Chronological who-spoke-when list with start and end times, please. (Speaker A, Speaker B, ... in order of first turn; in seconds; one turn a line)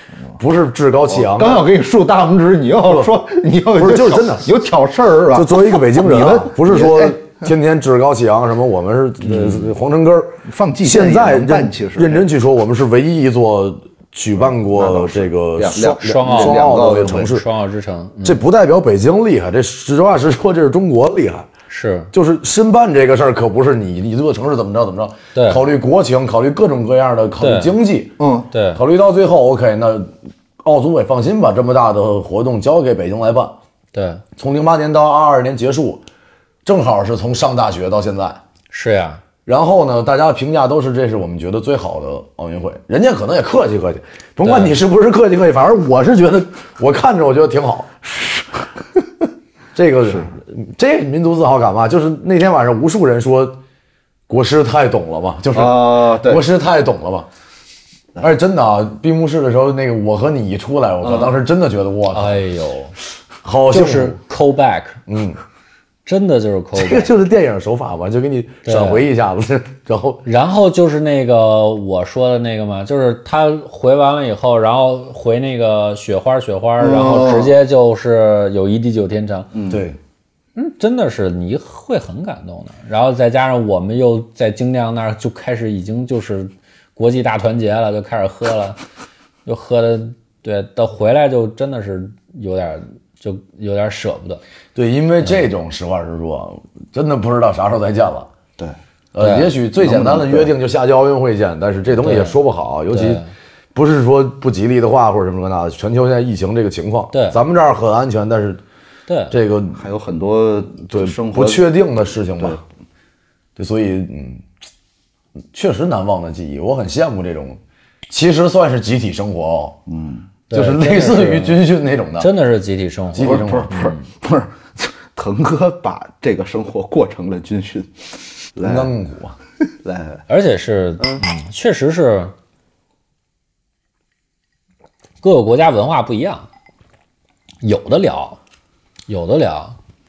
Speaker A: 0.4-1.6
Speaker B: 1.1-7.4
Speaker A: 2.9-3.1
Speaker A: 3.8-4.5
Speaker A: 5.3-17.4
Speaker B: 9.2-9.7
Speaker B: 10.4-12.3
Speaker B: 14.4-17.4
Speaker C: 15.9-18.4
Speaker A: 18.2-21.5
Speaker C: 21.7-22.1
Speaker A: 22.1-28.2
Speaker C: 25.3-25.6
Speaker C: 27.4-27.7
Speaker B: 28.2-28.5
Speaker C: 28.5-28.8
Speaker A: 28.7-33.6
Speaker C: 33.9-34.2
Speaker A: 34.4-36.0
Speaker A: 36.6-38.4
Speaker C: 38.7-39.2
Speaker A: 39.5-47.9
Speaker C: 44.4-44.8
Speaker B: 48.0-48.7
Speaker A: 49.7-53.6
Speaker B: 50.0-50.3
Speaker A: 54.3-57.3
Speaker B: 55.5-56.4
Speaker A: 58.2-62.4
Speaker C: 62.1-62.9
Speaker A: 63.4-64.2
Speaker C: 63.7-65.0
Speaker A: 65.1-65.4
Speaker C: 66.0-67.1
Speaker A: 66.7-70.2
Speaker C: 68.6-69.0
Speaker C: 70.2-79.5
Speaker B: 76.8-77.5
Speaker B: 79.5-79.8
Speaker A: 79.7-80.0
Speaker C: 80.5-88.8
Speaker C: 89.4-94.4
Speaker A: 94.7-98.3
Speaker A: 99.1-103.2
Speaker C: 99.2-99.5
Speaker B: 99.8-100.5
Speaker C: 102.0-102.4
Speaker C: 102.9-103.3
Speaker A: 103.7-108.6
Speaker C: 107.1-107.4
Speaker C: 109.1-109.4
Speaker A: 109.3-109.8
Speaker B: 109.8-111.6
Speaker A: 110.9-112.6
Speaker A: 113.6-114.4
Speaker A: 115.5-119.8
Speaker B: 119.9-120.3
Speaker C: 120.5-121.6
Speaker A: 120.5-122.3
Speaker C: 122.2-124.0
Speaker A: 123.1-123.7
Speaker B: 123.2-128.9
Speaker A: 128.6-129.4
Speaker B: 129.6-130.2
Speaker C: 130.3-132.3
Speaker C: 135.2-136.5
Speaker C: 137.6-138.4
Speaker C: 139.1-139.8